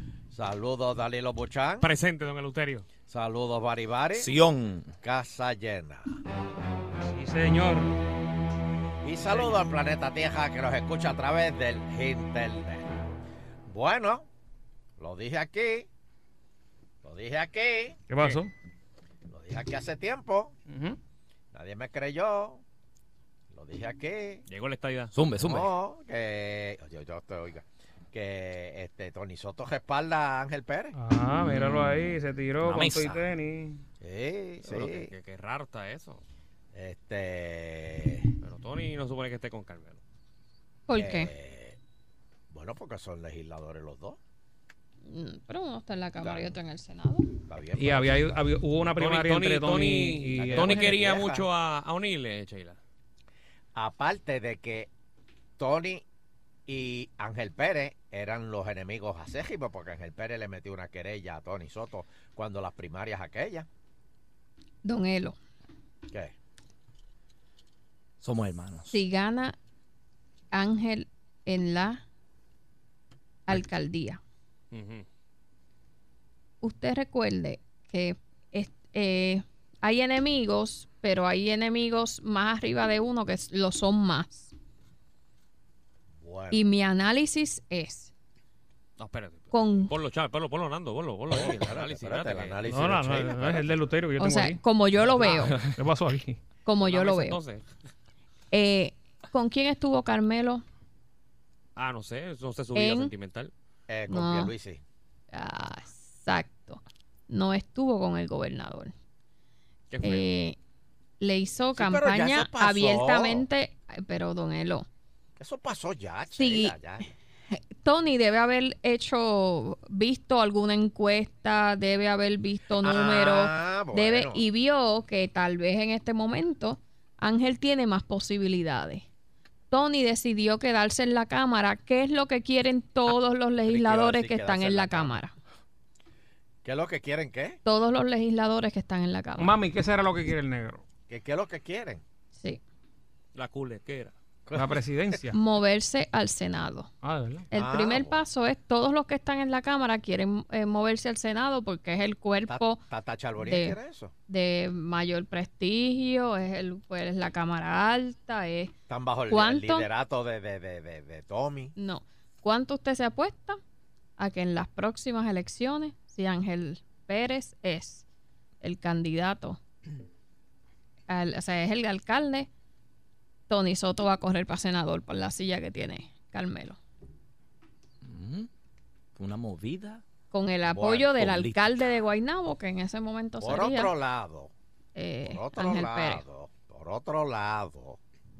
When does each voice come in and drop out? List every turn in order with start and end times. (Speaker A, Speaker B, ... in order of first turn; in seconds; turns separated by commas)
Speaker A: 0.3-1.9, Speaker B: 1.8-2.9, Speaker A: 3.1-4.3, Speaker C: 4.1-4.9, Speaker A: 5.0-6.2, Speaker D: 7.0-7.9, Speaker A: 9.0-12.9, Speaker A: 13.7-14.3, Speaker A: 15.0-15.9, Speaker A: 17.0-18.0, Speaker D: 18.1-18.5, Speaker A: 19.3-20.5, Speaker D: 20.7-21.0, Speaker A: 21.5-22.6, Speaker A: 23.5-24.4, Speaker B: 24.5-25.1, Speaker C: 25.1-25.7, Speaker A: 25.4-30.9, Speaker D: 30.9-33.8, Speaker C: 31.4-33.2, Speaker A: 34.0-35.1, Speaker B: 34.6-36.2, Speaker A: 36.7-38.3, Speaker B: 38.4-40.0, Speaker E: 40.9-41.3, Speaker A: 40.9-41.8, Speaker A: 42.5-44.2, Speaker E: 45.0-47.3, Speaker A: 46.2-46.6, Speaker A: 47.5-48.4, Speaker D: 47.8-51.0, Speaker B: 49.0-52.8, Speaker A: 50.4-51.5, Speaker A: 53.7-54.9, Speaker A: 55.6-56.0, Speaker A: 56.7-63.7, Speaker E: 64.8-65.4, Speaker C: 68.2-69.0, Speaker E: 68.9-69.5, Speaker E: 70.5-72.0, Speaker E: 73.5-74.2, Speaker B: 74.7-75.0, Speaker E: 76.6-84.5, Speaker A: 86.2-86.6, Speaker E: 86.5-88.1, Speaker B: 89.0-92.6, Speaker E: 89.5-89.9, Speaker A: 91.3-93.9, Speaker D: 92.6-94.6, Speaker E: 94.2-95.5, Speaker D: 95.2-96.4, Speaker E: 96.6-97.4, Speaker B: 96.8-97.6, Speaker E: 98.5-100.6, Speaker B: 101.8-103.5, Speaker E: 102.7-103.1, Speaker A: 103.9-104.8, Speaker E: 104.1-104.5, Speaker E: 105.3-108.9, Speaker B: 109.9-110.3, Speaker E: 110.0-110.6, Speaker E: 111.2-114.9, Speaker A: 111.7-113.4, Speaker A: 115.4-117.0, Speaker E: 116.4-116.8, Speaker E: 117.5-129.1, Speaker A: 122.8-124.4, Speaker E: 129.7-135.3, Speaker A: 133.7-135.2, Speaker A: 136.6-137.6, Speaker E: 137.6-139.5, Speaker D: 139.4-140.8, Speaker A: 141.1-142.0, Speaker B: 143.3-144.1, Speaker A: 144.4-145.2, Speaker D: 144.5-145.4, Speaker E: 145.3-146.9, Speaker D: 147.0-147.5, Speaker E: 147.5-152.8, Speaker A: 147.5-148.2, Speaker A: 152.5-154.1, Speaker E: 153.4-153.8, Speaker E: 154.3-158.7, Speaker A: 158.9-161.7, Speaker E: 159.3-159.9, Speaker E: 161.8-163.6, Speaker E: 164.2-168.0, Speaker E: 168.6-169.6, Speaker E: 171.1-172.5, Speaker E: 173.5-176.8, Speaker C: 178.0-178.5, Speaker C: 179.1-180.0, Speaker E: 180.3-183.9, Speaker A: 180.7-181.5, Speaker C: 181.2-181.6, Speaker A: 183.4-184.5, Speaker E: 184.9-186.2, Speaker A: 185.2-188.0